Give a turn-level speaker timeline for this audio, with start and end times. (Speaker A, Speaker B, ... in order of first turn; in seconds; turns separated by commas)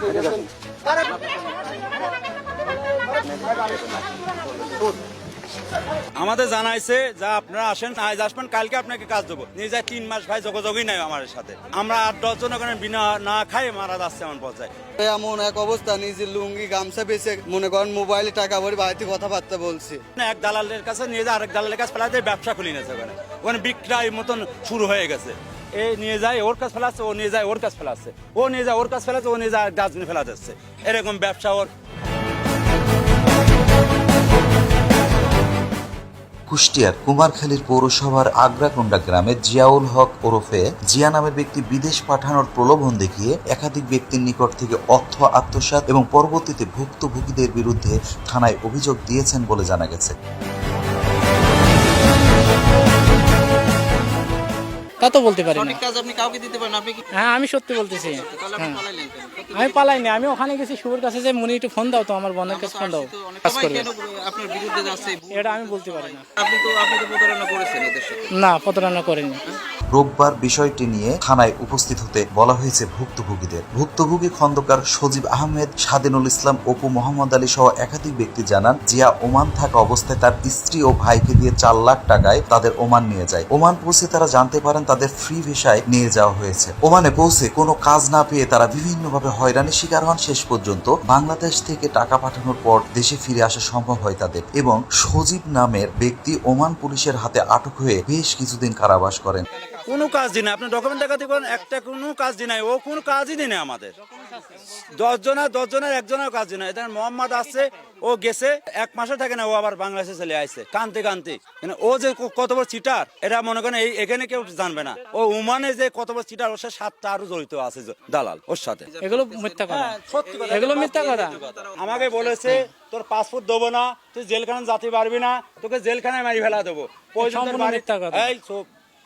Speaker A: 6.2-14.7, Speaker B: 15.0-20.0, Speaker A: 20.1-31.7, Speaker C: 36.5-50.1, Speaker D: 55.0-55.8, Speaker E: 55.5-57.0, Speaker D: 57.1-58.9, Speaker E: 58.3-59.9, Speaker D: 59.5-63.9, Speaker E: 62.5-68.3, Speaker D: 65.2-66.2, Speaker D: 68.3-69.4, Speaker C: 69.9-99.4, Speaker A: 99.9-103.9, Speaker A: 105.0-118.9, Speaker D: 119.0-121.4, Speaker E: 119.2-122.5, Speaker A: 119.7-128.7, Speaker D: 127.2-128.3